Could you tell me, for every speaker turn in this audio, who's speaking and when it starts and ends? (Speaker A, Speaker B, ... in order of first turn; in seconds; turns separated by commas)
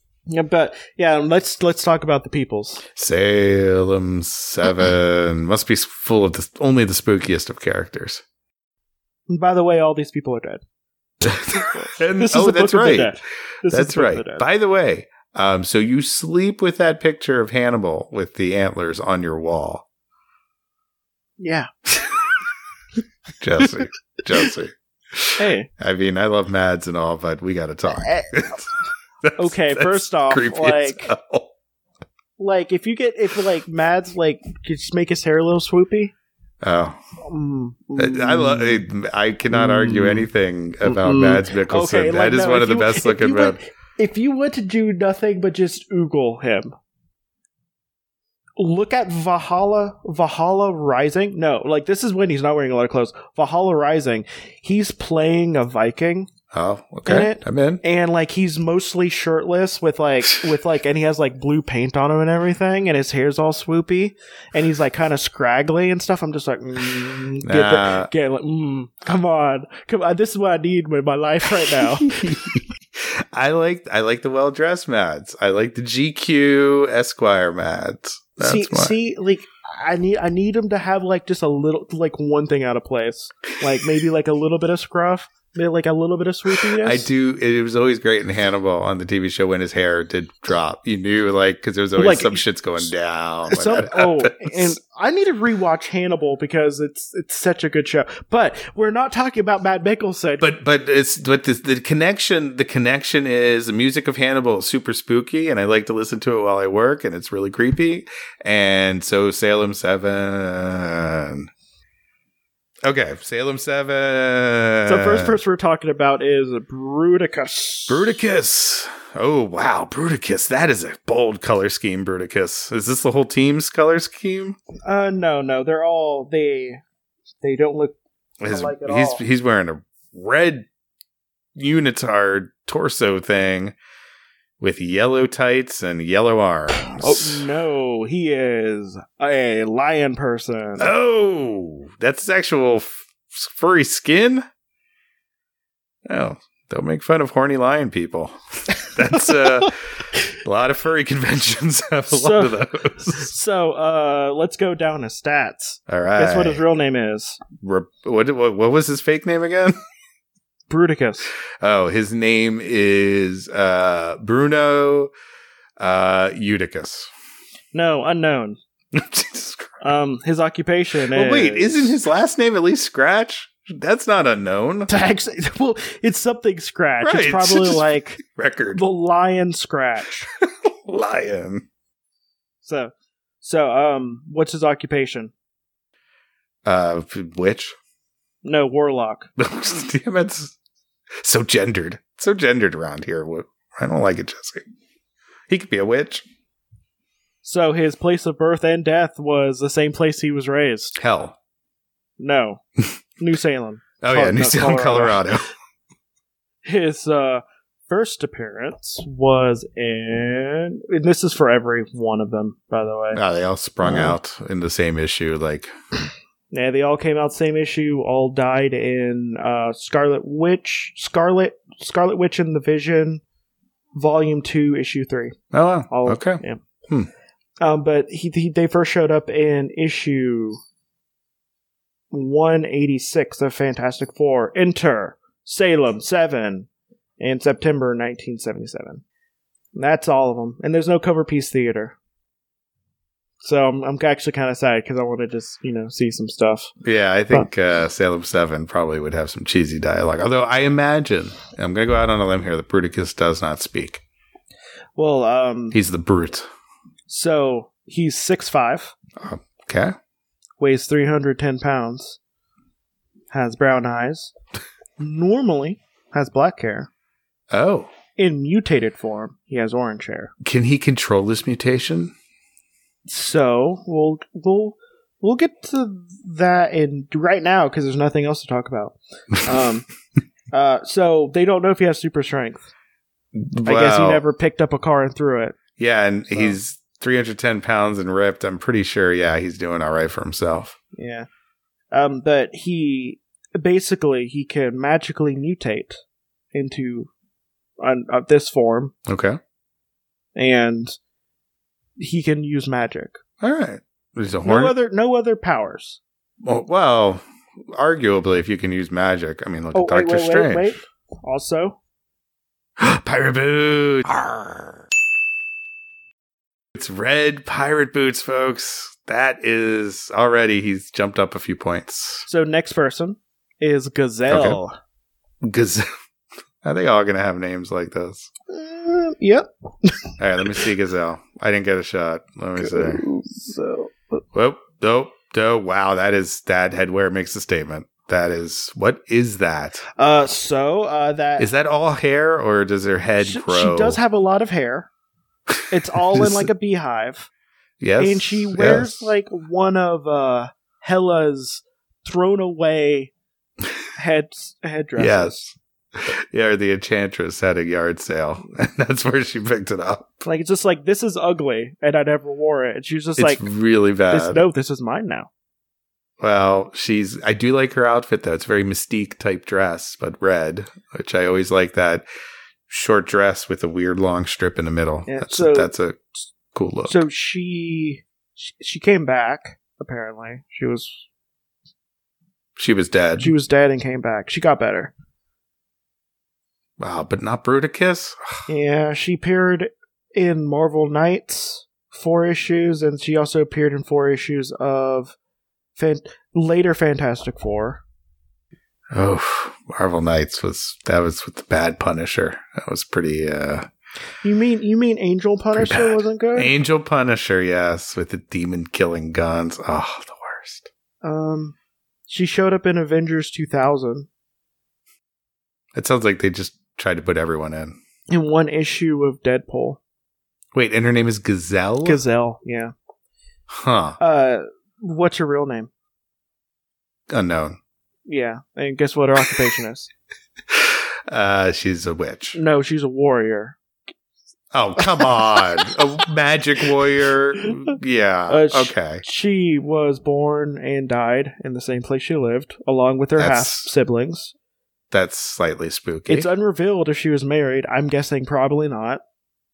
Speaker A: 0.3-2.8, Speaker B: 3.0-8.2, Speaker A: 9.3-10.6, Speaker A: 11.2-14.4, Speaker B: 11.2-19.9, Speaker A: 21.4-21.7, Speaker B: 23.4-28.7, Speaker A: 25.4-25.7, Speaker A: 28.0-28.3, Speaker B: 29.2-31.5, Speaker A: 29.4-31.1, Speaker A: 32.4-36.1, Speaker B: 36.6-37.0, Speaker A: 37.2-38.9, Speaker B: 38.0-43.6, Speaker A: 39.5-40.3, Speaker A: 40.9-46.8, Speaker A: 48.6-56.3, Speaker B: 56.5-57.8, Speaker A: 57.0-72.2, Speaker B: 67.4-68.1, Speaker B: 71.6-78.9, Speaker A: 78.4-87.1, Speaker B: 86.7-94.7, Speaker A: 92.0-92.4, Speaker A: 93.5-100.5, Speaker B: 100.4-111.5, Speaker B: 112.8-115.4, Speaker A: 114.9-118.1, Speaker B: 117.9-124.6, Speaker A: 124.8-126.8, Speaker A: 127.4-129.2, Speaker B: 128.4-130.7, Speaker B: 131.6-133.8, Speaker B: 134.6-137.4, Speaker A: 136.8-140.9, Speaker B: 140.8-144.5, Speaker B: 146.1-153.3, Speaker A: 152.1-157.4, Speaker B: 155.9-156.6, Speaker B: 157.6-159.8, Speaker A: 160.7-161.3, Speaker B: 161.6-165.1, Speaker B: 165.8-167.1, Speaker A: 167.7-168.6, Speaker B: 168.9-169.8, Speaker A: 169.8-172.0, Speaker B: 171.1-174.9, Speaker A: 174.9-178.2, Speaker B: 177.0-178.8, Speaker A: 178.7-180.3, Speaker B: 180.4-181.7, Speaker A: 182.6-185.3, Speaker B: 186.7-187.8, Speaker A: 188.4-189.3, Speaker B: 189.4-190.6, Speaker B: 191.2-194.7, Speaker B: 195.5-196.2, Speaker A: 197.4-201.0, Speaker B: 201.0-201.3, Speaker A: 202.2-202.6, Speaker A: 203.2-205.2, Speaker B: 204.0-205.5, Speaker A: 206.6-213.2, Speaker B: 213.1-215.7, Speaker A: 213.8-214.2, Speaker A: 216.5-223.2, Speaker A: 223.9-225.4, Speaker B: 225.5-227.1, Speaker A: 225.9-226.6, Speaker A: 227.6-230.6, Speaker A: 232.1-236.7, Speaker A: 237.2-239.0, Speaker A: 239.8-242.0, Speaker A: 243.4-246.7, Speaker B: 246.8-254.0, Speaker A: 255.0-255.8, Speaker B: 255.7-256.5, Speaker A: 257.1-258.9, Speaker B: 259.2-260.0, Speaker A: 260.6-262.2, Speaker A: 263.3-264.3, Speaker A: 265.0-266.9, Speaker B: 267.5-267.9, Speaker A: 268.2-270.3, Speaker B: 270.4-272.1, Speaker A: 273.1-279.9, Speaker A: 280.5-282.7, Speaker B: 283.4-284.2, Speaker A: 283.6-285.6, Speaker B: 285.8-290.8, Speaker A: 291.0-291.3, Speaker A: 291.9-296.0, Speaker A: 296.5-297.1, Speaker A: 297.8-298.9, Speaker B: 299.1-299.4, Speaker A: 300.4-301.0, Speaker A: 302.0-303.2, Speaker B: 303.4-304.8, Speaker A: 304.4-306.0, Speaker B: 306.4-310.8, Speaker A: 309.7-311.8, Speaker B: 312.8-314.9, Speaker B: 316.8-322.3, Speaker A: 322.3-324.8, Speaker B: 324.3-324.6, Speaker B: 325.4-325.9, Speaker B: 326.6-328.3, Speaker A: 328.5-330.0, Speaker B: 330.2-333.0, Speaker A: 332.6-334.2, Speaker B: 334.3-339.9, Speaker A: 340.0-341.5, Speaker B: 341.4-344.0, Speaker A: 343.2-344.9, Speaker A: 345.7-347.3, Speaker B: 346.1-346.5, Speaker B: 347.8-349.1, Speaker A: 348.0-353.1, Speaker A: 354.0-355.5, Speaker B: 355.0-360.2, Speaker A: 360.2-363.5, Speaker B: 363.2-364.4, Speaker A: 364.1-365.3, Speaker B: 366.2-372.1, Speaker B: 372.7-376.0, Speaker A: 375.1-375.7, Speaker B: 376.5-377.0, Speaker A: 376.9-381.1, Speaker B: 382.6-383.3, Speaker A: 383.2-384.9, Speaker B: 386.8-388.4, Speaker A: 388.5-395.1, Speaker A: 395.8-397.8, Speaker B: 398.9-403.7, Speaker A: 404.2-406.5, Speaker B: 405.6-410.7, Speaker A: 411.0-411.6, Speaker A: 412.1-414.1, Speaker B: 415.8-417.8, Speaker A: 418.1-419.8, Speaker B: 420.5-422.0, Speaker A: 421.8-422.7, Speaker B: 423.5-424.0, Speaker A: 424.0-425.7, Speaker B: 427.1-427.6, Speaker A: 428.1-429.9, Speaker B: 430.5-432.4, Speaker A: 432.3-433.6, Speaker B: 434.5-439.0, Speaker A: 434.8-435.7, Speaker A: 437.4-437.7, Speaker A: 438.3-444.3, Speaker B: 443.2-443.7, Speaker B: 444.9-446.3, Speaker A: 446.1-449.0